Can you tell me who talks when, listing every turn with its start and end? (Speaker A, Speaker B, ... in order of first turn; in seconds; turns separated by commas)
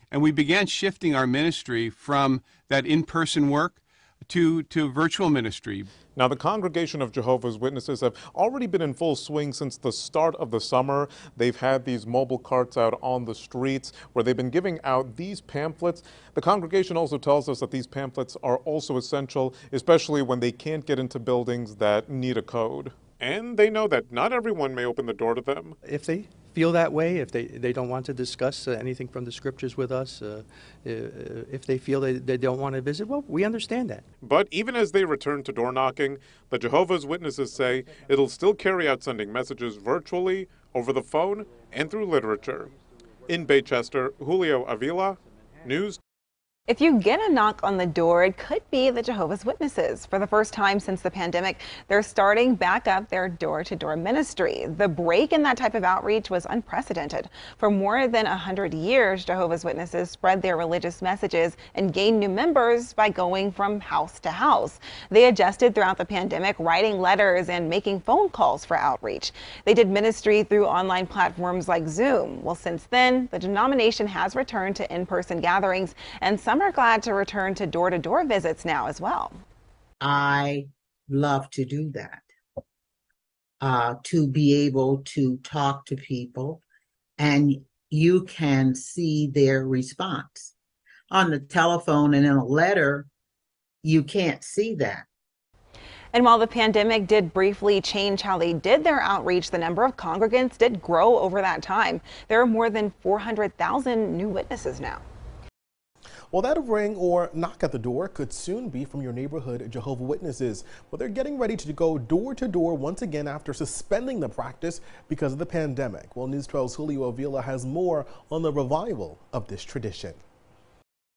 Speaker A: 0.1-5.9, Speaker B: 6.2-25.8, Speaker C: 25.9-34.0, Speaker B: 34.2-42.7, Speaker B: 43.3-46.0, Speaker D: 46.7-79.4, Speaker E: 80.0-82.2, Speaker E: 83.6-86.6, Speaker E: 87.2-90.5, Speaker E: 91.1-93.1, Speaker E: 93.8-95.0, Speaker D: 96.1-105.0, Speaker F: 106.3-120.2